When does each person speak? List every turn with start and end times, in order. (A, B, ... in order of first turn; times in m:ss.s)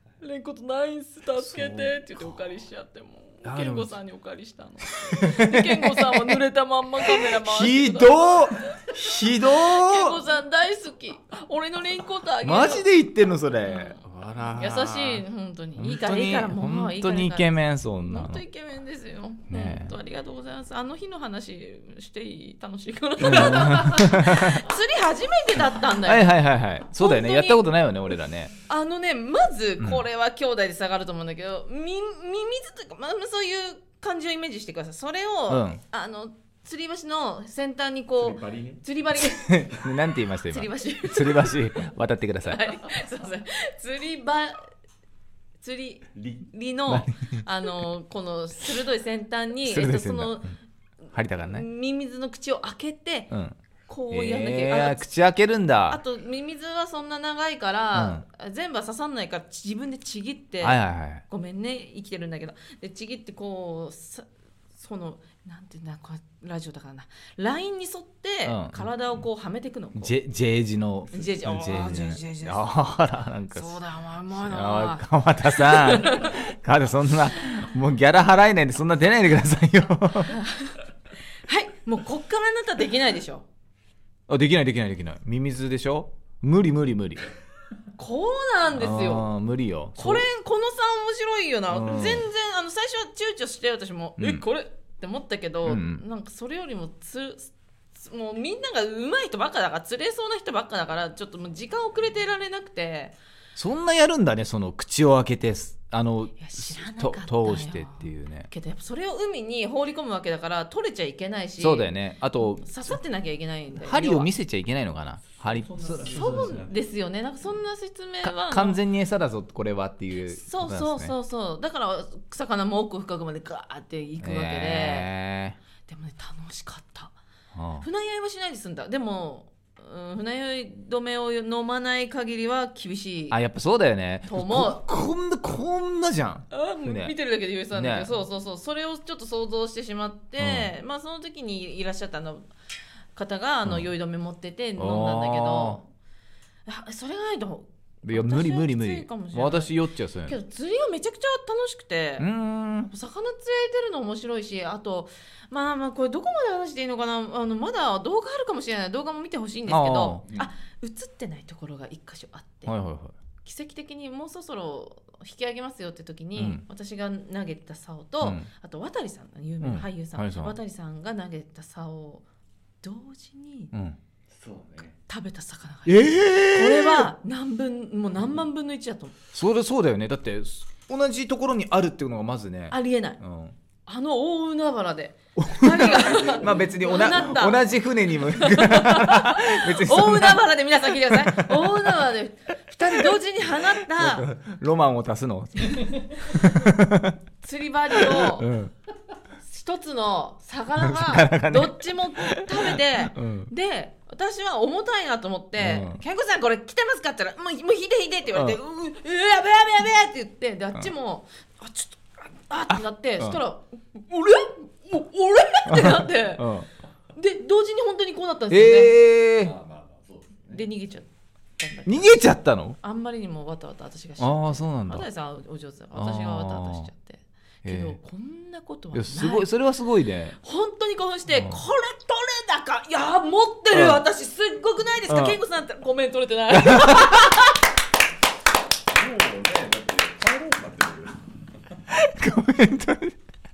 0:00.2-0:12.9 A
0:01.4-0:02.2 B
0:03.4-0:03.9 B
0:05.0-0:06.3 B
0:07.1-0:10.2 B
0:12.4-0:15.2 B
0:13.6-0:14.0 A
0:14.5-0:17.5 A
0:15.8-0:18.4 B
0:18.1-0:26.4 A
0:19.5-0:19.9 B
0:23.2-0:24.6 B
0:26.0-0:28.5 B
0:26.9-0:27.7 A
0:28.7-0:39.7 A
0:35.5-0:35.8 B
0:38.2-0:38.8 C
0:39.2-0:42.6 B
0:40.5-0:41.8 A
0:42.4-0:44.7 A
0:45.6-0:50.6 A
0:46.2-0:46.5 C
0:46.9-0:47.4 B
0:49.7-0:50.6 B
0:51.1-0:51.6 B
0:51.4-0:53.3 A
0:53.3-0:53.6 B
0:53.9-0:55.1 A
0:54.1-0:56.0 B
0:55.9-1:10.1 A
0:58.0-0:58.2 B
1:00.6-1:01.2 B
1:08.5-1:08.9 B
1:10.0-1:13.8 B
1:11.1-1:12.7 A
1:13.5-1:16.4 A
1:14.4-1:20.4 B
1:20.3-1:20.8 A
1:21.4-1:23.5 A
1:24.3-1:27.3 B
1:28.0-1:29.3 A
1:28.8-1:30.3 B
1:30.0-1:43.2 A
1:31.7-1:32.3 B
1:34.2-1:34.4 B
1:35.6-1:36.0 B
1:43.6-1:48.5 B
1:46.4-1:51.9 A
1:51.6-1:53.0 B
1:52.6-1:54.3 A
1:53.8-1:56.5 B
1:55.4-1:56.7 C
1:56.0-1:58.8 A
1:58.2-2:01.1 B
2:00.3-2:05.1 A
2:04.2-2:05.6 B
2:05.8-2:07.2 A
2:07.5-2:07.9 B
2:07.8-2:13.4 A
2:13.3-2:17.1 B
2:14.3-2:14.8 A
2:16.5-2:22.5 A
2:17.7-2:18.1 B
2:20.4-2:20.7 B
2:23.2-2:25.9 A
2:24.8-2:25.8 B
2:26.7-2:29.8 A
2:28.0-2:30.4 B
2:30.3-2:42.7 A
2:32.2-2:32.9 B
2:39.7-2:40.2 B
2:42.7-2:43.2 B
2:43.4-2:52.2 A
2:46.4-2:46.6 B
2:48.2-2:48.5 B
2:49.6-2:50.6 B
2:52.8-2:53.7 A
2:53.7-2:54.0 B
2:54.3-2:55.0 C
2:55.1-2:59.1 A
2:55.9-2:57.1 B
2:59.3-3:03.6 B
3:02.7-3:03.2 A
3:03.8-3:07.7 A
3:05.4-3:11.8 B
3:08.3-3:14.3 A
3:12.9-3:13.2 B
3:13.8-3:17.2 B
3:17.4-3:18.5 A
3:18.0-3:18.7 B
3:19.4-3:36.6 A
3:20.8-3:23.5 B
3:25.6-3:26.0 B
3:32.7-3:33.4 B
3:35.7-3:36.7 B
3:37.1-3:39.0 A
3:38.5-3:39.6 B
3:39.4-3:40.6 C
3:40.5-3:41.1 A
3:41.6-3:42.2 A
3:41.9-3:42.8 B
3:42.8-3:49.5 A
3:44.2-3:45.1 B
3:45.9-3:46.9 B
3:47.6-3:48.0 B
3:48.9-3:50.4 B
3:50.3-3:57.6 A
3:51.3-3:51.6 B
3:53.7-3:54.0 B
3:55.1-3:55.4 B
3:56.6-3:57.3 B
3:58.9-4:01.4 C
4:01.9-4:03.2 B